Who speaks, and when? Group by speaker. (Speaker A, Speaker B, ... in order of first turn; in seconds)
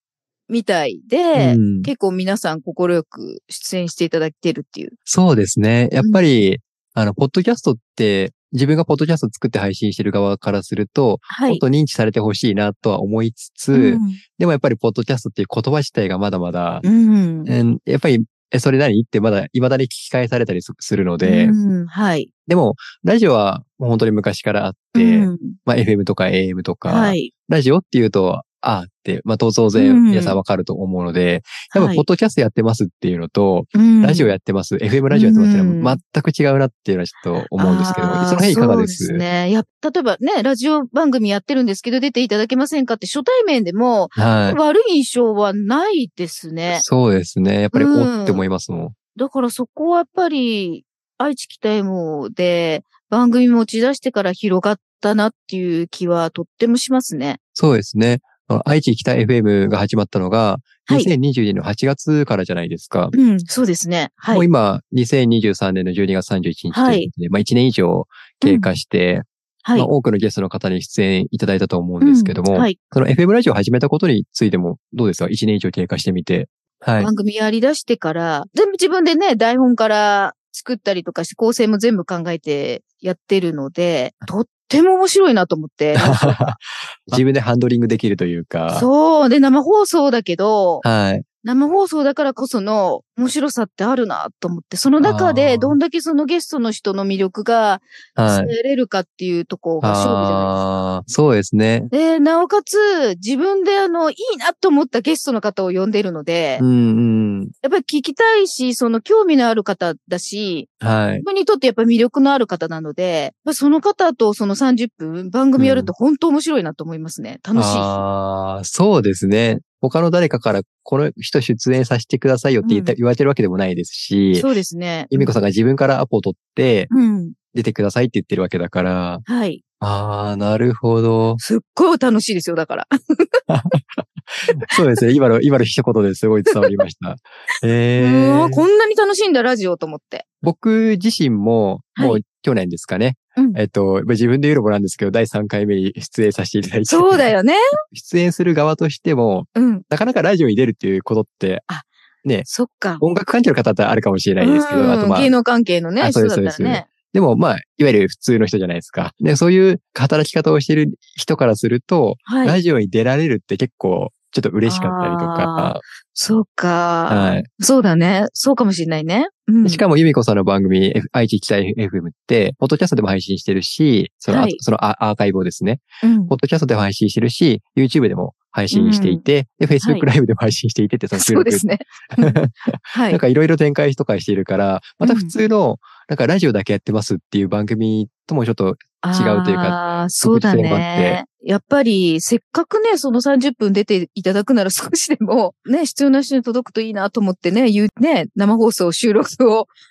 Speaker A: 0.5-4.9, 11.3-11.6, 13.7-14.2, 16.8-17.5, 21.2-22.3, 24.9-25.6, 26.9-27.3, 29.7-30.4, 31.7-32.0, 33.7-34.3, 35.1-36.0, 37.6-46.8, 47.7-48.4, 49.1-57.4, 60.9-61.1, 63.1-64.5, 66.7-67.1, 68.4-68.7, 69.6-69.9, 72.0-72.8, 77.0-86.5, 88.7-90.8, 91.4-100.5, 101.9-106.6, 107.6-118.0, 122.6-123.0, 124.3-125.3, 126.9-127.3, 129.3-129.6, 131.4-133.4, 134.5-134.8, 136.5-136.8, 138.0-140.2, 141.9-142.2, 146.9-147.6, 149.5-149.8, 152.5-153.0, 154.4-156.9, 162.3-162.6, 164.7-169.8, 174.3-174.6, 176.0-176.3, 178.7-179.2, 179.8-180.1, 181.1-183.2, 185.0-185.3, 189.0-199.7
Speaker B: 1.4-1.9, 5.1-16.8, 17.4-21.5, 22.5-39.2, 44.1-44.6, 46.7-49.0, 57.5-63.1, 64.3-77.1, 86.0-88.9, 90.8-91.2, 95.0-95.8, 98.2-98.5, 99.8-101.9, 106.6-107.5, 110.8-111.2, 115.6-115.9, 117.5-124.5, 125.1-126.9, 127.5-129.2, 129.8-131.4, 133.5-138.6, 140.4-147.3, 147.9-151.7, 152.2-152.5, 153.0-155.3, 156.0-165.8, 167.1-167.5, 169.6-191.2